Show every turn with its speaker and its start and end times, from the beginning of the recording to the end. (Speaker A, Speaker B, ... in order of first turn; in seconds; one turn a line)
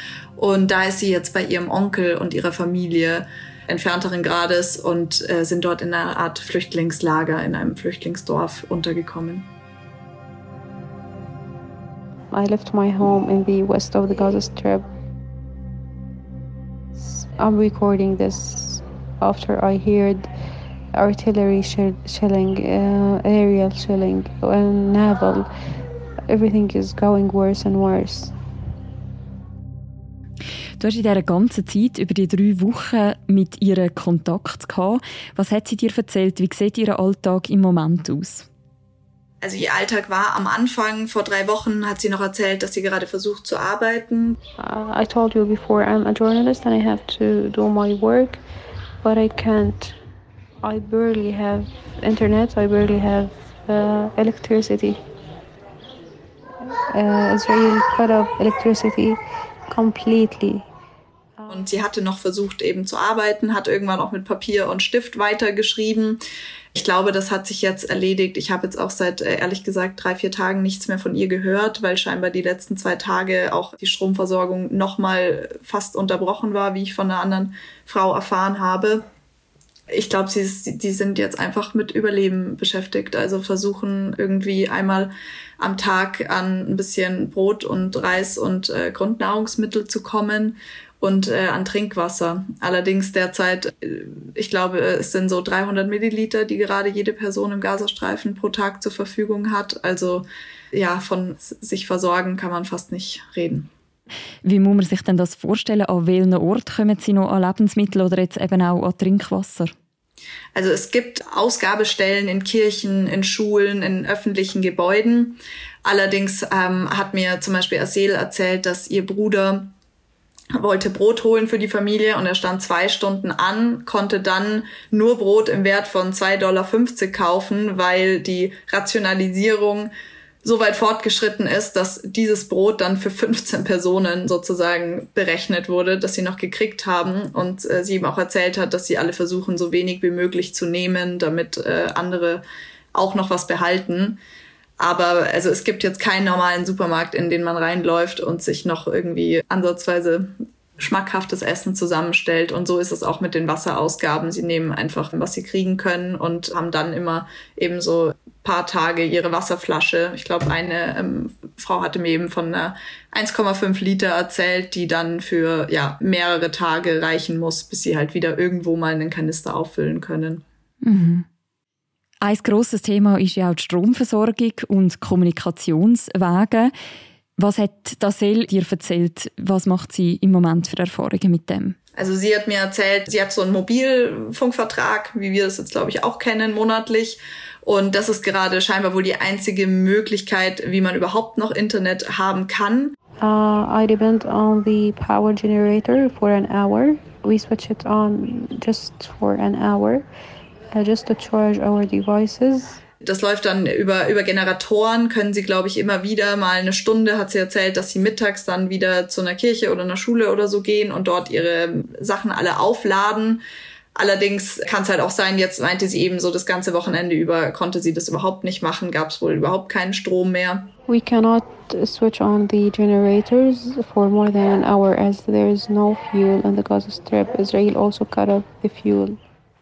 Speaker A: 0.4-9.5
Speaker B: 12.3-14.8
Speaker B: 17.1-20.3
Speaker B: 20.9-25.5
Speaker B: 26.3-28.3
Speaker C: 30.8-38.5
Speaker A: 39.4-44.4
Speaker B: 44.6-48.4
Speaker B: 49.0-50.0
Speaker B: 50.6-55.0
Speaker B: 56.6-60.6
Speaker A: 61.5-66.2
Speaker A: 66.7-79.0
Speaker A: 79.9-103.7
Speaker C: 104.4-109.7
Speaker A: 110.5-119.7
Speaker A: 120.5-129.9
Speaker A: 130.4-144.2
Speaker A: 144.8-170.4
Speaker C: 170.8-171.2
Speaker C: 172.2-176.7
Speaker C: 177.4-181.8
Speaker A: 181.9-192.9
Speaker B: 193.2-200.0
Speaker B: 200.7-202.8
Speaker A: 203.0-213.4
Speaker A: 213.9-220.7
Speaker B: 220.9-229.2